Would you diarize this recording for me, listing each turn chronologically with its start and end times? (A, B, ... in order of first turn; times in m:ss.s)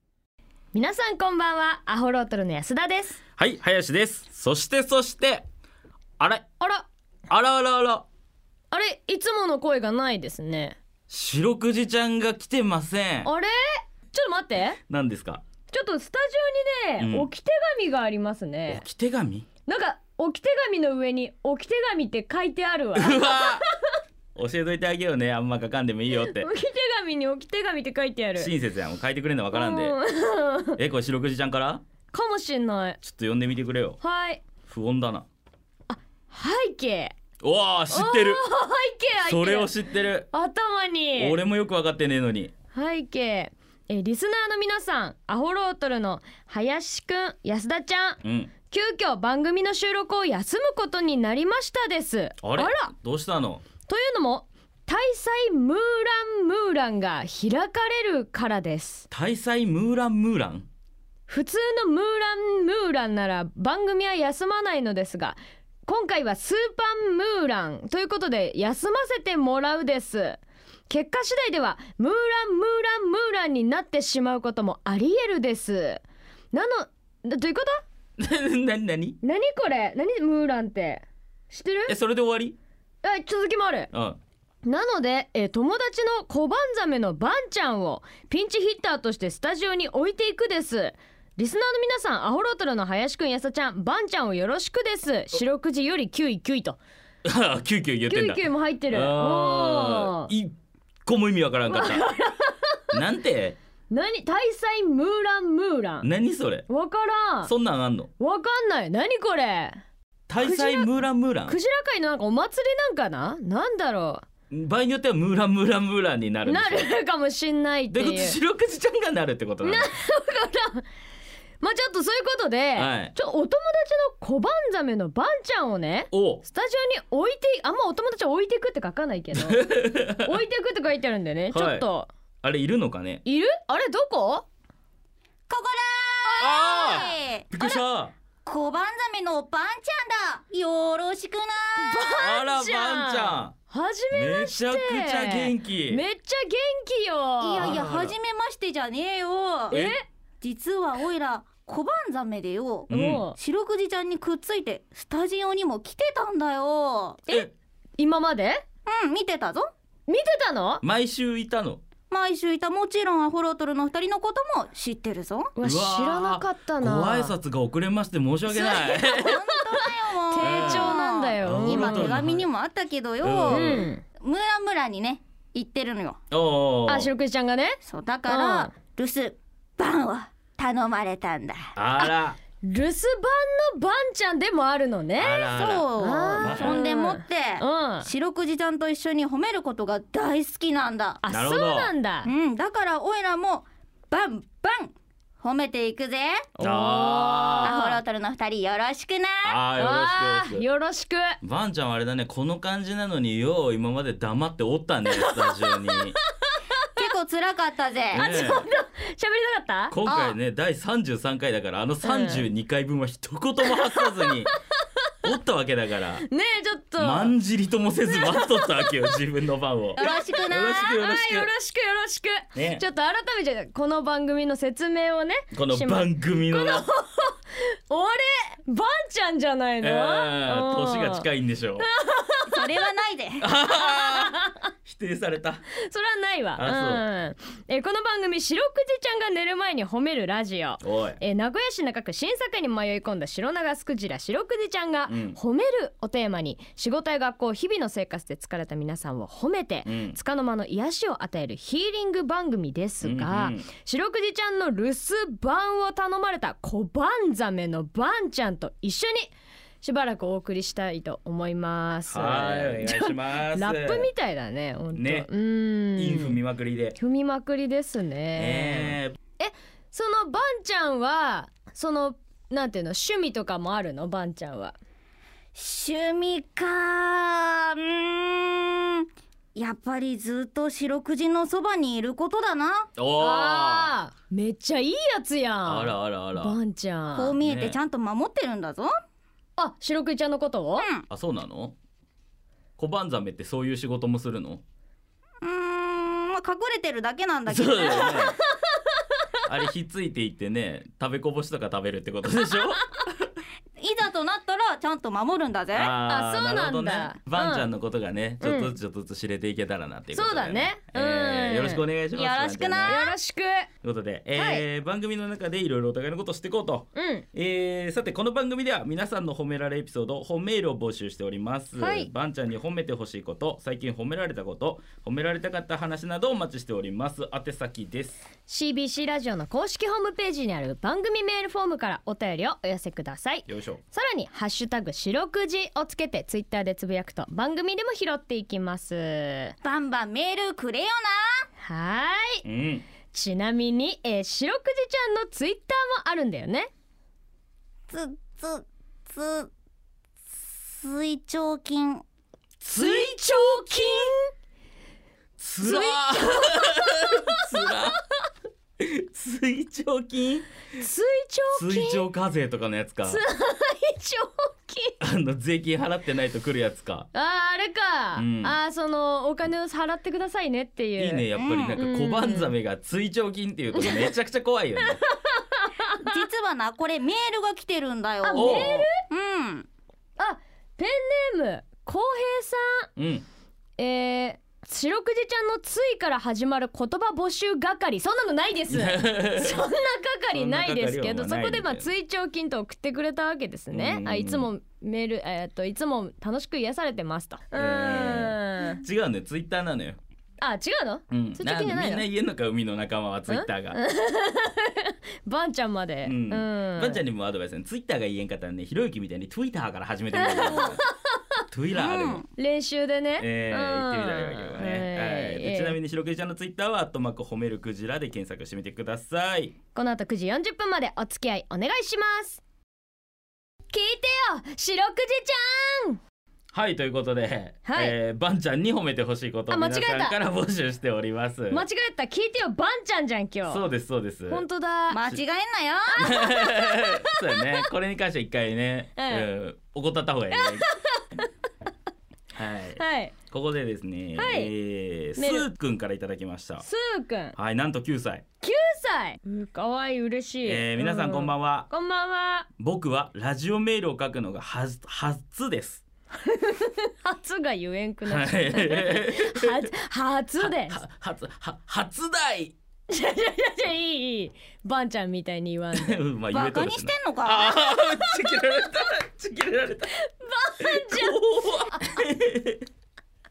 0:00.7-0:03.2 A
0:03.4-0:05.4 B
0:06.2-0:06.4 B
0:06.6-0:06.9 A
0:07.3-0:08.1 B
0:08.7-0:10.8 A
0:11.1-0:13.3 B
0:13.2-0:14.8 A
0:14.9-0:15.4 B
0:15.7-0:18.8 A
0:17.0-0:17.3 B
0:18.7-0:19.5 B
0:19.7-0:23.7 A
0:23.0-0:23.6 B
0:24.3-0:26.5 B
0:26.1-0:28.5 A
0:28.4-0:30.0 B
0:29.5-0:30.8 A
0:30.8-0:31.8 B
0:32.1-0:33.0 A
0:33.0-0:34.0 B
0:34.0-0:34.4 A
0:34.6-0:35.2 B
0:35.9-0:37.1 A
0:37.4-0:38.4 B
0:37.9-0:39.7 A
0:39.2-0:40.3 B
0:40.3-0:41.4 A
0:41.2-0:42.5 B
0:42.7-0:52.9 A
0:48.2-0:48.5 B
0:52.4-0:53.6 B
0:53.9-0:59.1 A
0:59.1-1:00.7 B
1:01.3-1:16.0 A
1:16.5-1:17.8 A
1:18.2-1:19.2 B
1:19.2-1:22.0 A
1:21.9-1:22.6 B
1:23.0-1:23.9 A
1:23.9-1:24.2 B
1:24.6-1:36.8 A
1:37.2-1:40.5 B
1:38.1-1:40.3 A
1:41.0-1:42.1 B
1:41.7-1:42.9 A
1:42.9-1:43.6 B
1:43.9-1:46.1 A
1:46.0-1:46.7 B
1:46.7-1:47.5 A
1:47.4-1:48.1 B
1:48.2-1:49.8 A
1:50.3-1:51.6 B
1:50.4-1:54.2 A
1:54.5-1:56.9 B
1:56.4-1:58.4 A
1:57.9-1:59.9 B
1:59.6-2:00.8 A
2:01.6-2:12.1 A
2:02.8-2:03.1 B
2:06.1-2:06.4 B
2:09.3-2:10.3 B
2:11.5-2:11.8 B
2:12.4-2:13.2 B
2:13.2-2:14.4 A
2:15.5-2:17.8 C
2:16.4-2:17.1 A
2:16.4-2:18.1 B
2:18.4-2:22.2 C
2:21.8-2:27.8 A
2:22.2-2:23.5 B
2:24.1-2:26.0 B
2:27.4-2:29.7 C
2:27.6-2:28.2 B
2:29.7-2:30.0 B
2:29.7-2:30.0 A
2:30.4-2:37.2 C
2:32.9-2:33.2 B
2:32.9-2:33.4 A
2:37.3-2:38.6 A
2:38.9-2:39.7 C
2:40.1-2:40.8 A
2:40.8-2:41.8 B
2:42.1-2:45.5 C
2:45.5-2:47.3 A
2:45.6-2:49.4 B
2:48.5-2:56.2 C
2:50.3-2:52.1 A
2:50.4-2:52.5 B
2:53.2-2:53.9 B
2:53.5-2:54.0 A
2:56.3-2:57.1 B
2:56.9-2:58.7 A
2:57.8-3:01.6 C
3:01.7-3:02.4 B
3:02.6-3:08.1 A
3:05.2-3:05.9 B
3:05.5-3:11.2 C
3:06.4-3:06.8 B
3:11.2-3:12.3 A
3:11.3-3:11.9 B
3:12.2-3:16.5 C
3:16.5-3:18.0 A
3:16.6-3:17.8 B
3:17.6-3:19.6 C
3:19.4-3:20.6 B
3:19.8-3:21.4 A
3:21.4-3:26.2 B
3:25.1-3:26.9 A
3:27.0-3:28.3 C
3:28.1-3:28.7 B
3:28.2-3:30.0 A
3:29.9-3:34.5 B
3:30.0-3:30.4 C
3:32.0-3:32.5 A
3:33.6-3:34.3 A
3:35.2-3:36.2 B
3:36.3-3:37.3 A
3:37.0-3:41.5 B
3:38.1-3:39.1 A
3:40.0-3:40.9 C
3:40.0-3:51.3 A
3:42.5-3:42.8 B
3:45.5-3:46.9 B
3:49.8-3:51.8 B
3:51.8-3:52.8 A
3:52.5-3:53.4 C
3:53.4-3:55.6 B
3:53.7-3:54.6 A
3:55.8-4:26.4 A
3:56.6-3:57.0 B
4:00.8-4:01.2 B
4:05.1-4:05.4 B
4:09.8-4:10.2 B
4:13.0-4:13.7 B
4:22.1-4:24.1 B
4:24.9-4:25.3 B
4:26.0-4:27.0 B
4:27.0-4:34.8 A
4:28.4-4:29.2 B
4:35.5-4:42.9 C
4:43.0-4:43.9 B
4:43.2-4:47.4 A
4:45.6-4:46.6 B
4:47.1-4:48.9 C
4:47.4-4:47.8 B
4:49.6-4:50.9 A
4:50.8-4:51.0 C
4:51.1-4:51.8 B
4:52.8-4:54.6 B
4:55.4-4:58.3 C
4:57.5-4:58.4 B
4:57.9-4:58.2 A
4:59.4-5:03.3 B
5:03.8-5:05.9 C
5:05.7-5:13.0 B
5:06.0-5:07.7 A
5:08.4-5:08.7 A
5:10.1-5:11.8 A
5:12.1-5:13.1 C
5:12.9-5:13.7 A
5:13.8-5:28.2 B
5:14.3-5:14.6 A
5:16.9-5:17.2 A
5:21.8-5:22.1 A
5:28.5-5:39.5 A
5:33.5-5:33.8 B
5:39.6-5:41.4 C
5:41.6-5:42.4 A
5:42.4-5:42.8 B
5:43.1-5:46.7 A
5:47.9-5:49.5 C
5:50.7-5:52.0 C
5:52.6-5:54.1 B
5:52.7-5:54.3 A
5:55.4-5:58.0 B
5:55.6-5:57.4 A
5:58.8-6:00.5 B
6:00.7-6:02.0 A
6:01.5-6:03.2 B
6:03.0-6:05.0 A
6:05.0-6:07.1 B
6:07.1-6:12.5 A
6:08.1-6:08.6 B
6:11.0-6:15.0 B
6:11.3-6:11.8 C
6:13.7-6:14.1 A
6:14.8-6:16.1 A
6:16.0-6:19.7 C
6:18.2-6:19.0 A
6:18.3-6:18.8 B
6:20.2-6:22.9 A
6:23.0-6:23.2 B
6:23.8-6:38.8 A
6:28.7-6:29.7 B
6:30.3-6:31.9 B
6:33.7-6:34.5 B
6:37.5-6:40.0 B
6:40.4-6:42.1 A
6:41.1-6:43.8 B
6:43.3-6:47.0 A
6:46.0-6:50.8 B
6:50.1-6:51.2 A
6:51.5-6:52.2 B
6:51.7-6:52.3 C
6:52.3-6:55.8 A
6:53.2-6:59.5 B
6:59.7-7:02.4 A
7:03.7-7:06.0 A
7:06.5-7:11.6 B
7:07.6-7:08.0 A
7:09.5-7:10.2 A
7:11.5-7:13.7 A
7:13.4-7:14.4 B
7:14.3-7:15.2 A
7:14.9-7:16.1 C
7:16.0-7:17.4 A
7:16.0-7:20.7 B
7:19.0-7:19.3 A
7:20.3-7:21.3 A
7:22.3-7:26.6 B
7:22.8-7:23.1 A
7:24.2-7:24.5 A
7:25.2-7:25.5 A
7:26.6-7:27.3 A
7:27.4-7:28.2 B
7:28.4-7:32.5 A
7:30.4-7:31.7 B
7:32.6-7:35.8 B
7:36.2-7:40.8 A
7:38.0-7:39.7 B
7:40.4-7:42.5 B
7:42.9-7:46.0 A
7:45.7-7:49.9 B
7:46.3-7:47.7 C
7:47.9-7:48.4 A
7:49.9-7:52.0 A
7:50.6-7:52.6 B